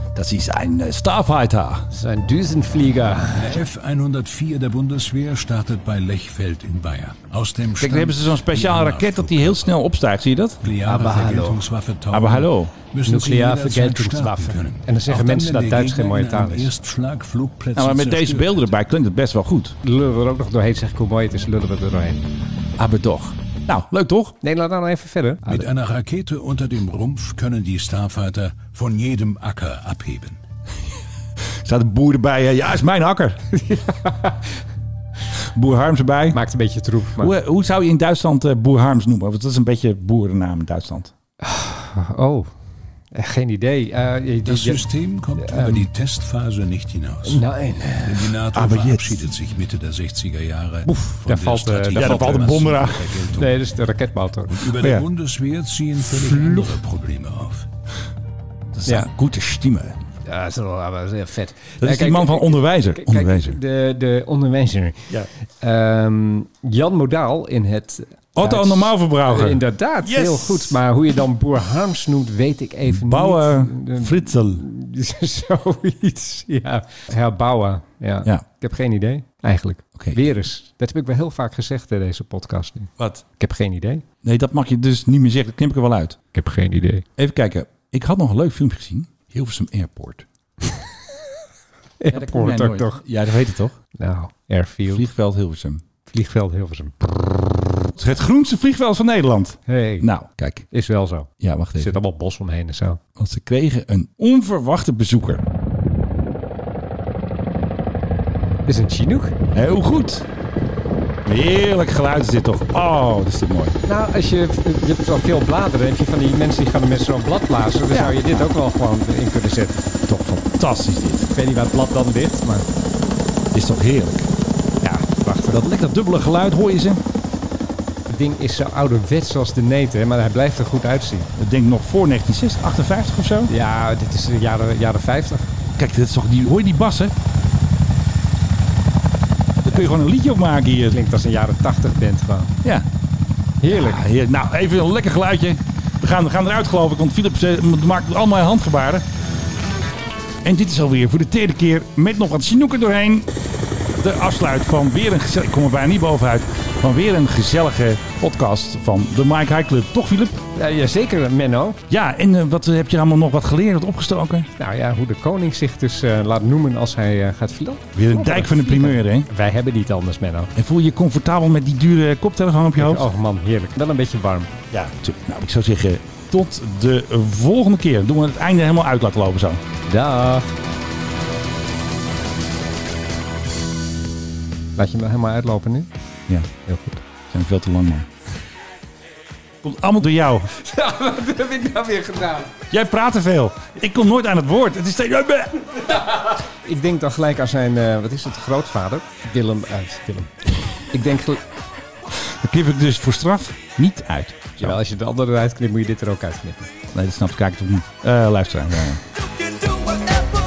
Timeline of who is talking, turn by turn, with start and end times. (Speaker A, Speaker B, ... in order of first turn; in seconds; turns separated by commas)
Speaker A: 0.1-1.9, Speaker B: 1.9-3.6, Speaker C: 3.3-9.7, Speaker A: 7.8-10.6, Speaker C: 10.6-18.8, Speaker B: 10.8-11.6, Speaker A: 12.1-12.7, Speaker B: 13.1-16.7, Speaker A: 17.8-19.8, Speaker B: 19.8-22.2, Speaker A: 22.8-24.4, Speaker B: 24.4-25.7, Speaker C: 25.4-30.4, Speaker A: 31.6-33.4, Speaker B: 33.5-34.5, Speaker A: 35.5-36.4, Speaker B: 36.3-37.3, Speaker A: 37.2-41.1, Speaker B: 41.4-42.5, Speaker B: 43.1-44.8, Speaker C: 44.4-47.5, Speaker B: 45.4-45.9, Speaker B: 47.2-48.7, Speaker C: 48.0-53.6, Speaker A: 48.5-49.0, Speaker B: 50.9-54.5, Speaker A: 52.0-53.1, Speaker C: 54.5-57.6, Speaker B: 56.1-56.7, Speaker A: 58.7-60.0, Speaker B: 60.2-84.0, Speaker A: 61.8-63.6, Speaker A: 68.3-70.8, Speaker A: 72.9-74.6, Speaker A: 80.0-80.2, Speaker A: 83.0-83.2, Speaker A: 84.2-86.2, Speaker B: 86.3-87.0, Speaker A: 87.2-90.2, Speaker B: 92.0-93.0, Speaker A: 92.1-93.8, Speaker B: 94.0-95.0, Speaker A: 94.9-95.8, Speaker B: 96.0-97.7, Speaker A: 98.0-100.7, Speaker B: 99.7-100.1, Speaker B: 100.7-103.0, Speaker A: 101.4-102.0, Speaker A: 103.2-105.4, Speaker B: 108.7-109.3, Speaker A: 109.5-110.2, Speaker A: 111.2-113.8, Speaker B: 113.8-119.8, Speaker A: 117.9-118.5, Speaker A: 120.1-121.3, Speaker B: 121.3-122.7, Speaker A: 123.5-124.3, Speaker B: 124.8-125.7, Speaker A: 125.5-127.0, Speaker B: 128.1-131.3, Speaker A: 131.3-133.5, Speaker B: 133.5-135.5, Speaker A: 135.8-137.1, Speaker A: 139.6-141.0, Speaker B: 139.7-140.0, Speaker B: 140.9-142.5, Speaker B: 143.6-144.0, Speaker A: 143.7-149.0, Speaker A: 150.4-153.3, Speaker A: 154.0-160.4, Speaker B: 160.6-161.8, Speaker A: 161.9-164.5, Speaker B: 164.6-170.5, Speaker A: 167.9-169.3, Speaker A: 170.6-173.1, Speaker B: 172.8-174.5, Speaker A: 174.7-179.6, Speaker B: 179.9-180.5, Speaker B: 184.8-185.9, Speaker B: 186.7-187.0, Speaker A: 187.3-188.1, Speaker A: 189.6-190.5, Speaker B: 190.5-192.5, Speaker A: 192.7-196.0, Speaker B: 196.6-200.3, Speaker B: 200.9-201.4, Speaker A: 202.1-204.8, Speaker B: 204.6-206.7, Speaker A: 206.9-209.0